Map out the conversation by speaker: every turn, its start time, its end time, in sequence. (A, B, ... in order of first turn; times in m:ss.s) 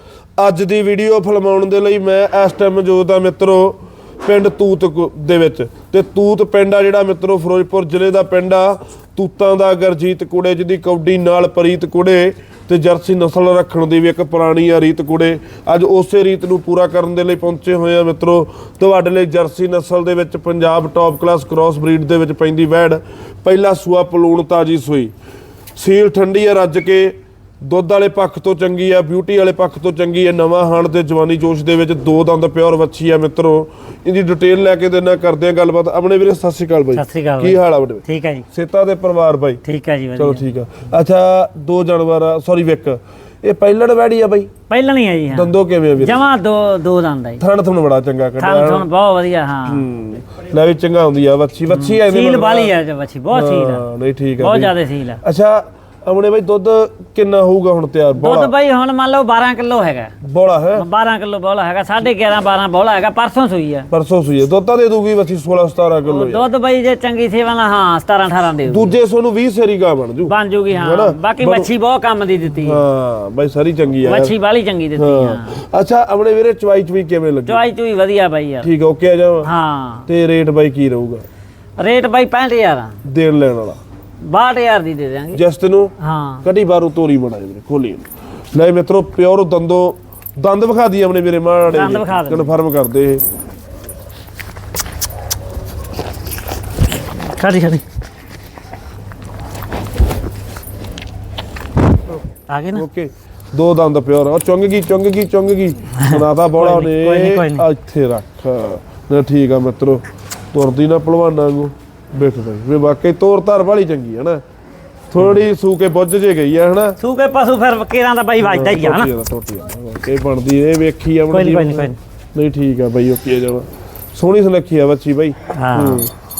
0:00.4-0:25.1 A
0:25.8-0:39.6 A
0:36.9-0:38.4 B
0:39.6-0:40.4 B
0:40.2-0:44.5 A
0:44.7-0:47.4 B
0:45.3-0:46.2 A
0:47.4-0:48.9 A
0:48.4-0:49.8 B
0:49.7-0:52.7 A
0:51.7-0:53.8 B
0:53.3-0:58.5 A
0:54.4-0:55.2 B
0:58.2-1:00.1 B
1:00.2-1:00.9 A
1:00.7-1:03.9 B
1:03.9-1:06.5 A
1:06.0-1:09.0 B
1:08.7-1:11.7 A
1:10.2-1:12.8 B
1:12.6-1:14.3 A
1:14.0-1:15.6 B
1:15.0-1:17.6 A
1:17.4-1:18.7 B
1:18.6-1:19.5 A
1:19.4-1:20.1 B
1:20.1-1:21.2 A
1:21.8-1:23.0 B
1:23.0-1:23.8 A
1:24.2-1:25.4 B
1:25.3-1:33.2 A
1:26.0-1:26.5 B
1:31.7-1:32.6 B
1:37.2-1:37.8 B
1:42.5-1:42.8 B
1:42.7-1:54.4 A
1:46.0-1:47.7 B
1:55.1-1:57.0 A
1:57.0-1:59.1 B
1:58.4-2:06.1 A
2:01.3-2:02.0 B
2:05.5-2:06.0 B